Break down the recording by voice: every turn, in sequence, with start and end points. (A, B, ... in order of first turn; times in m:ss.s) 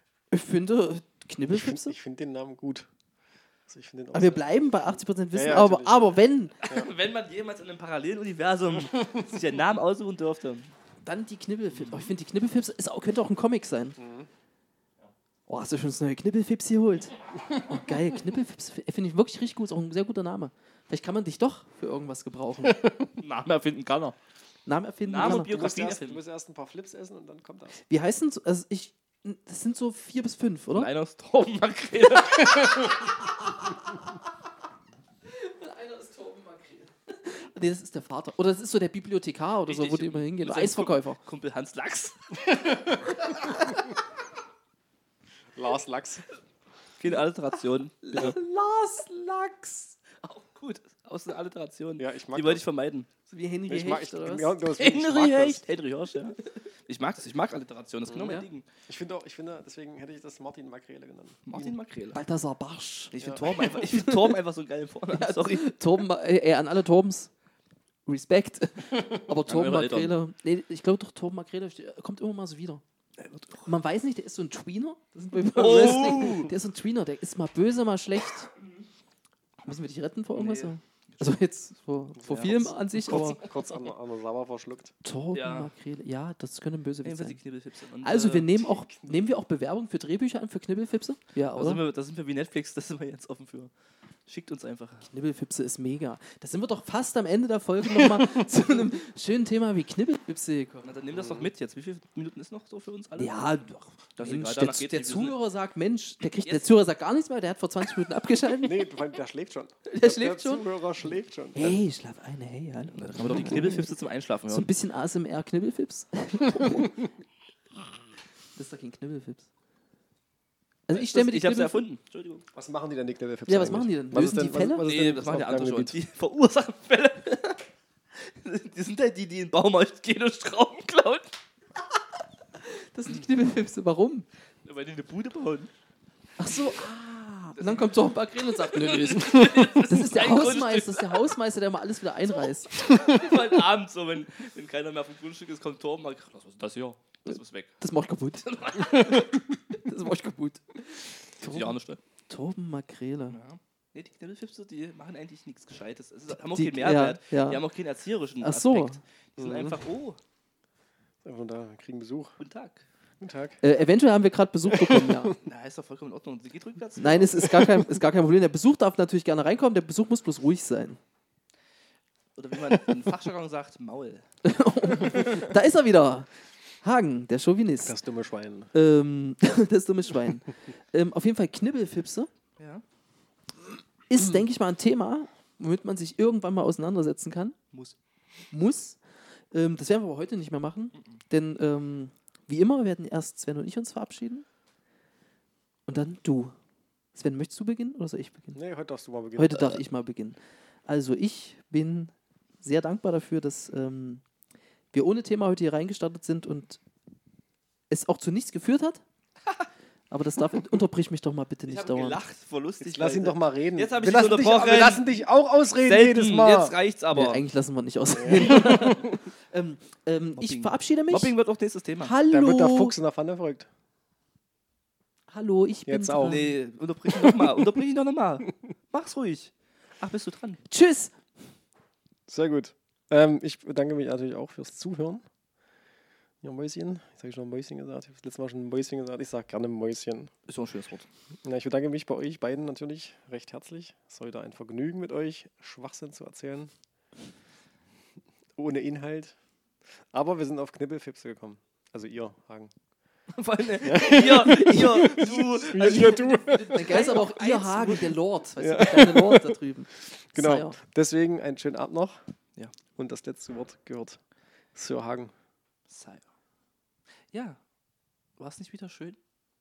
0:00.3-0:02.0 A
0:01.5-0:02.9 B
0:03.7-0:06.1 B
0:04.1-0:06.6 A
0:06.6-0:10.7 C
0:11.0-0:14.0 A
0:11.7-0:12.1 B
0:14.0-0:14.3 B
0:15.5-0:22.9 A
0:23.2-0:24.2 C
0:24.6-0:25.5 A
0:25.0-0:26.2 C
0:25.2-0:27.8 B
0:27.8-0:30.9 A
0:30.7-0:33.0 C
0:32.8-0:34.1 A
0:35.3-0:41.2 A
0:39.6-0:42.8 C
0:42.5-0:43.1 B
0:43.3-0:43.5 A
0:45.5-0:46.2 B
0:47.0-0:48.4 C
0:48.0-0:50.0 A
0:50.1-0:53.1 C
0:52.0-0:52.6 B
0:53.3-0:54.6 A
0:53.7-0:55.6 B
0:54.7-0:58.7 C
0:58.9-1:01.7 B
1:01.4-1:02.2 C
1:02.1-1:04.4 A
1:03.1-1:05.7 C
1:05.1-1:07.3 A
1:08.0-1:12.8 A
1:09.4-1:10.1 C
1:13.2-1:13.7 C
1:13.6-1:18.5 A
1:15.4-1:16.5 C
1:19.6-1:23.4 A
1:20.3-1:21.4 C
1:22.2-1:23.8 C
1:22.3-1:24.9 B
1:25.0-1:27.4 A
1:25.3-1:25.7 C
1:27.0-1:28.6 C
1:28.0-1:31.8 A
1:28.6-1:29.2 B
1:31.6-1:33.7 C
1:34.3-1:35.1 C
1:35.1-1:40.9 A
1:40.8-1:43.5 C
1:41.1-1:41.5 B
1:43.2-1:48.9 A
1:44.2-1:45.4 C
1:48.6-1:51.8 B
1:49.9-1:50.7 A
1:51.5-1:54.0 A
1:52.9-1:54.7 C
1:54.5-1:57.1 A
1:58.6-1:59.5 A
2:00.9-2:01.8 A
2:00.9-2:02.4 C
2:02.5-2:06.0 B
2:03.5-2:04.9 A
2:04.8-2:07.6 C
2:08.2-2:11.3 C
2:12.6-2:14.2 A
2:14.6-2:15.7 C
2:16.4-2:22.8 A
2:17.6-2:21.3 C
2:22.7-2:27.7 C
2:27.3-2:30.8 A
2:28.4-2:29.3 C
2:31.4-2:32.0 C
2:32.3-2:33.4 A
2:33.3-2:40.2 C
2:36.4-2:37.6 A
2:38.4-2:39.0 A
2:39.4-2:39.8 B
2:41.2-2:42.4 B
2:42.4-2:42.8 C
2:43.2-2:43.6 B
2:43.6-2:45.4 A
2:44.8-2:45.2 B
2:45.4-2:47.7 C
2:47.0-2:51.0 A
2:52.4-2:54.2 C
2:54.4-2:56.3 A
2:56.8-2:58.0 A
2:57.8-2:58.7 B
2:58.7-3:02.3 A
3:02.6-3:02.8 C
3:04.1-3:07.6 A
3:08.5-3:09.0 A
3:09.5-3:14.4 A
3:15.9-3:16.5 A
3:17.1-3:18.6 A
3:18.5-3:19.8 B
3:19.4-3:24.2 A
3:24.9-3:26.8 A
3:27.9-3:29.0 A
3:30.1-3:32.2 A
3:31.7-3:35.2 C
3:32.8-3:36.7 B
3:35.8-3:37.4 C
3:37.1-3:41.4 A
3:38.1-3:39.0 B
3:38.3-3:39.1 C
3:40.3-3:42.2 C
3:42.0-3:42.9 A
3:42.3-3:43.7 B
3:45.3-3:46.5 A
3:45.8-3:46.4 B
3:46.2-3:50.6 C
3:50.7-3:51.1 A
3:52.3-3:55.2 B
3:56.4-4:00.3 B
4:00.5-4:01.1 C
4:01.4-4:06.7 B
4:08.5-4:09.4 B
4:10.1-4:12.7 B
4:13.3-4:18.2 C
4:13.8-4:17.2 B
4:14.4-4:20.8 A
4:18.6-4:19.6 B
4:20.3-4:22.2 B
4:23.0-4:24.2 B
4:24.7-4:25.3 B
4:25.9-4:26.2 C
4:27.3-4:27.6 C
4:28.4-4:29.2 C